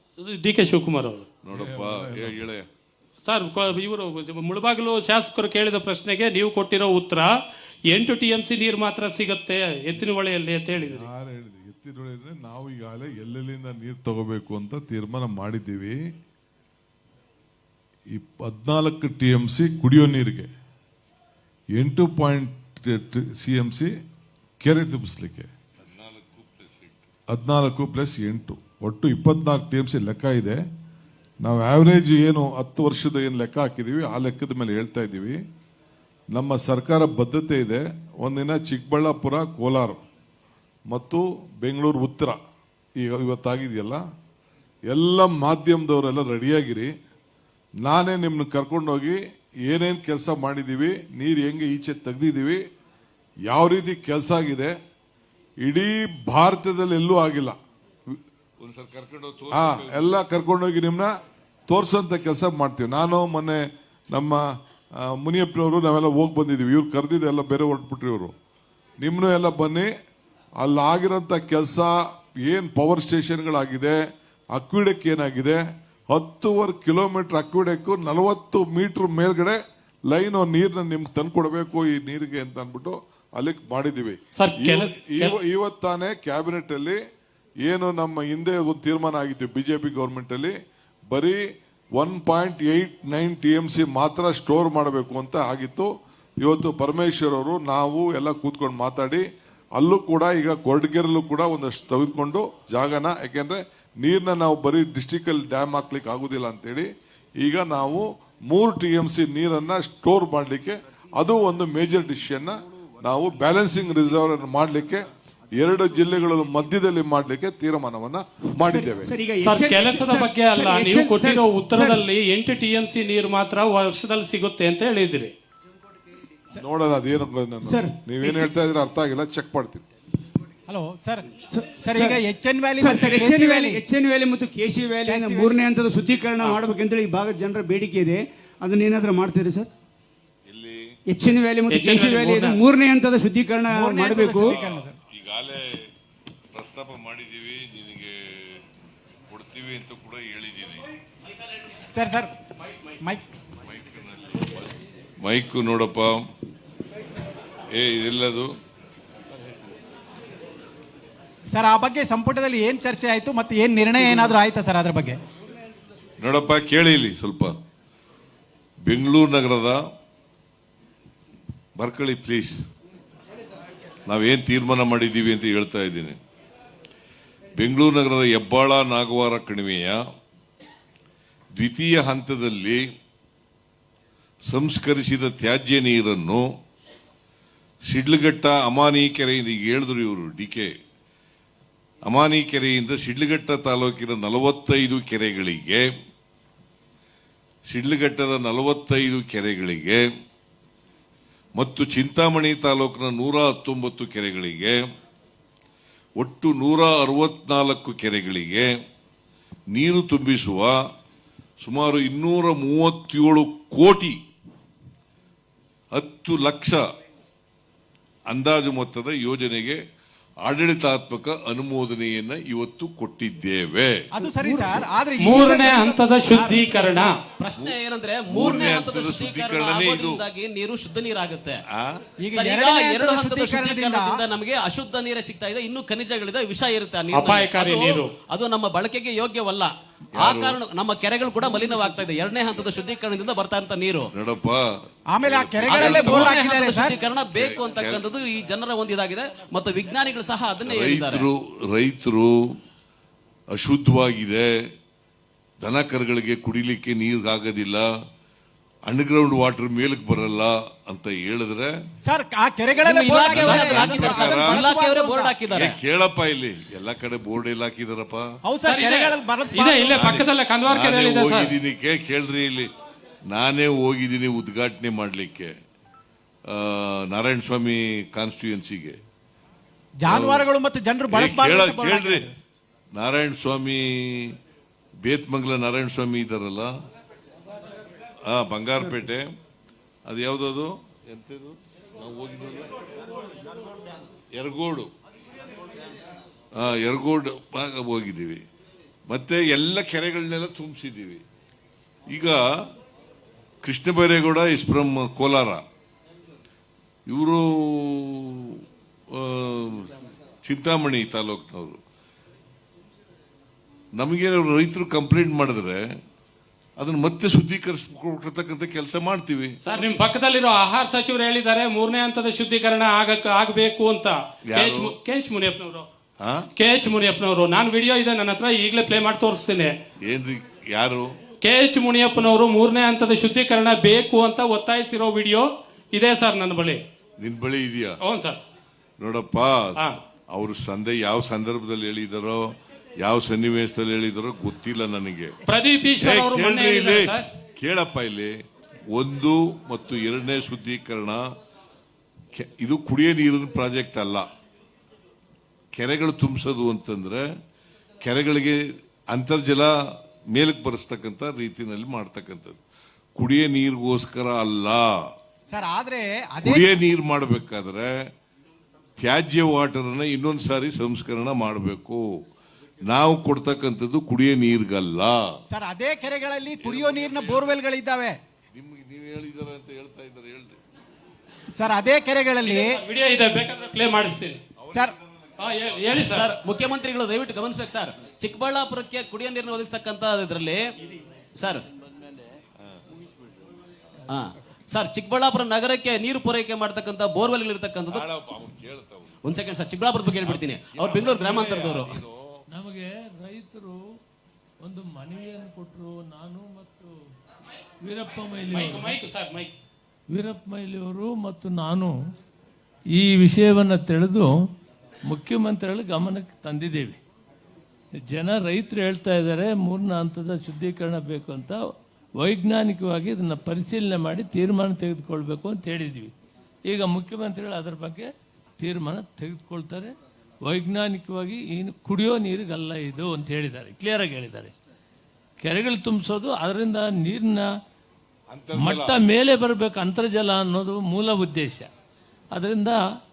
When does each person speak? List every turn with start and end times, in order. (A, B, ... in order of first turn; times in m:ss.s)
0:00.2-0:01.2 A
0:01.4-0:02.7 B
0:01.5-0:02.5 C
0:03.2-0:07.3 A
0:07.9-0:11.0 A
0:10.8-0:16.0 C
0:18.1-0:20.5 C
0:21.8-0:23.9 C
0:24.6-0:25.5 C
0:25.8-0:27.0 B
0:27.3-0:30.6 C
0:31.4-0:35.4 C
0:36.3-0:40.0 C
0:40.9-0:42.4 C
0:43.0-0:44.0 C
0:44.9-0:46.9 C
0:47.8-0:52.6 C
0:53.5-0:54.7 C
0:55.6-0:57.5 C
0:58.6-1:00.2 B
0:59.5-1:01.1 C
1:01.7-1:04.4 C
1:05.0-1:08.3 C
1:09.0-1:09.9 C
1:10.6-1:14.0 C
1:14.5-1:27.0 C
1:24.4-1:25.4 A
1:27.6-1:30.5 C
1:31.1-1:31.4 C
1:32.0-1:35.9 C
1:36.4-1:39.2 C
1:39.8-1:46.9 C
1:47.4-1:55.0 C
1:55.6-1:59.1 C
1:58.6-2:02.0 D
1:59.4-2:05.3 A
2:06.6-2:09.8 C
2:07.6-2:08.5 D
2:10.7-2:11.2 E
2:11.4-2:12.2 D
2:11.8-2:13.8 F
2:11.9-2:13.7 E
2:12.8-2:19.7 D
2:15.1-2:15.6 F
2:20.5-2:20.9 B
2:21.1-2:24.6 D
2:21.7-2:22.6 A
2:23.8-2:24.4 F
2:23.8-2:24.9 E
2:24.4-2:25.7 B
2:26.5-2:28.6 B
2:29.3-2:30.8 B
2:32.0-2:32.3 E
2:33.6-2:36.2 B
2:37.7-2:38.5 B
2:41.5-2:45.2 E
2:43.7-2:45.0 F
2:46.2-2:47.5 B
2:48.8-2:49.8 B
2:51.8-2:52.6 B
2:54.1-2:56.2 B
2:57.6-3:00.0 B
3:01.6-3:02.8 B
3:04.5-3:06.5 B
3:07.9-3:10.7 B
3:12.0-3:15.9 B
3:17.7-3:20.0 B
3:21.6-3:24.8 B
3:26.2-3:28.7 B
3:29.7-3:30.8 B
3:31.6-3:34.2 B
3:35.9-3:36.8 B
3:38.3-3:39.8 B
3:40.4-3:44.1 B
3:44.1-3:47.1 E
3:44.2-3:44.9 D
3:45.2-3:47.2 A
3:47.4-3:51.6 G
3:47.5-3:50.2 B
3:51.7-3:52.0 B
3:52.2-3:54.2 E
3:52.3-4:04.1 G
3:57.1-3:58.1 A
4:00.1-4:00.6 B
4:04.1-4:04.6 B
4:05.2-4:06.2 B
4:05.2-4:06.9 E
4:05.3-4:06.4 F
4:05.7-4:11.3 G
4:07.1-4:08.1 B
4:10.6-4:12.4 B
4:13.5-4:14.5 B
4:15.6-4:17.8 B
4:18.8-4:21.7 B
4:22.0-4:25.3 E
4:22.8-4:25.7 G
4:23.0-4:25.0 F
4:23.2-4:24.7 B
4:23.4-4:23.8 A
4:25.5-4:28.3 B
4:28.4-4:29.8 E
4:28.6-4:31.5 A
4:29.8-4:32.7 B
4:33.3-4:35.5 B
4:36.5-4:39.0 B
4:40.0-4:40.5 B
4:40.1-4:42.3 E
4:41.1-4:42.3 B
4:41.2-4:42.1 F
4:42.9-4:44.4 B
4:45.0-4:46.7 B
4:48.3-4:49.2 B
4:50.0-4:52.7 B
4:54.3-4:54.9 B
4:56.6-4:58.4 B
4:59.1-5:01.2 B
5:02.1-5:02.4 B
5:03.6-5:05.6 B
5:07.1-5:08.6 B
5:09.1-5:09.9 B
5:10.4-5:11.8 B
5:14.0-5:15.8 B
5:16.8-5:19.6 B
5:19.6-5:25.9 A
5:24.4-5:24.9 B
5:26.2-5:26.5 B
5:26.6-5:29.8 A
5:30.0-5:31.1 B
5:31.4-5:36.8 A
5:37.2-5:38.0 B
5:38.0-5:38.4 A
5:39.0-5:39.8 B
5:40.3-5:45.4 B
5:45.4-5:47.3 A
5:46.0-5:48.3 B
5:48.9-5:51.2 B
5:52.4-5:54.3 B
5:55.8-5:57.2 B
5:58.0-5:59.7 B
6:00.3-6:02.6 B
6:03.2-6:04.9 B
6:05.5-6:06.5 E
6:06.4-6:07.9 B
6:09.0-6:12.1 B
6:12.8-6:15.2 B
6:15.5-6:18.2 E
6:16.3-6:17.6 F
6:16.6-6:17.6 B
6:18.5-6:20.6 B
6:21.5-6:22.8 E
6:22.4-6:24.4 A
6:24.6-6:25.4 B
6:25.4-6:26.3 A
6:26.0-6:30.7 G
6:31.4-6:31.6 G
6:34.1-6:38.0 G
6:37.9-6:39.4 B
6:39.2-6:42.0 G
6:40.2-6:42.4 B
6:42.5-6:43.8 F
6:44.6-6:46.9 F
6:47.8-6:49.0 F
6:48.5-6:49.5 A
6:50.1-6:51.9 F
6:53.0-6:54.3 F
6:55.1-6:57.0 F
6:58.1-7:01.6 F
7:02.2-7:06.1 F
7:06.7-7:08.1 F
7:08.6-7:14.5 F
7:15.4-7:17.5 F
7:18.3-7:19.0 B
7:18.5-7:21.7 F
7:22.3-7:22.8 F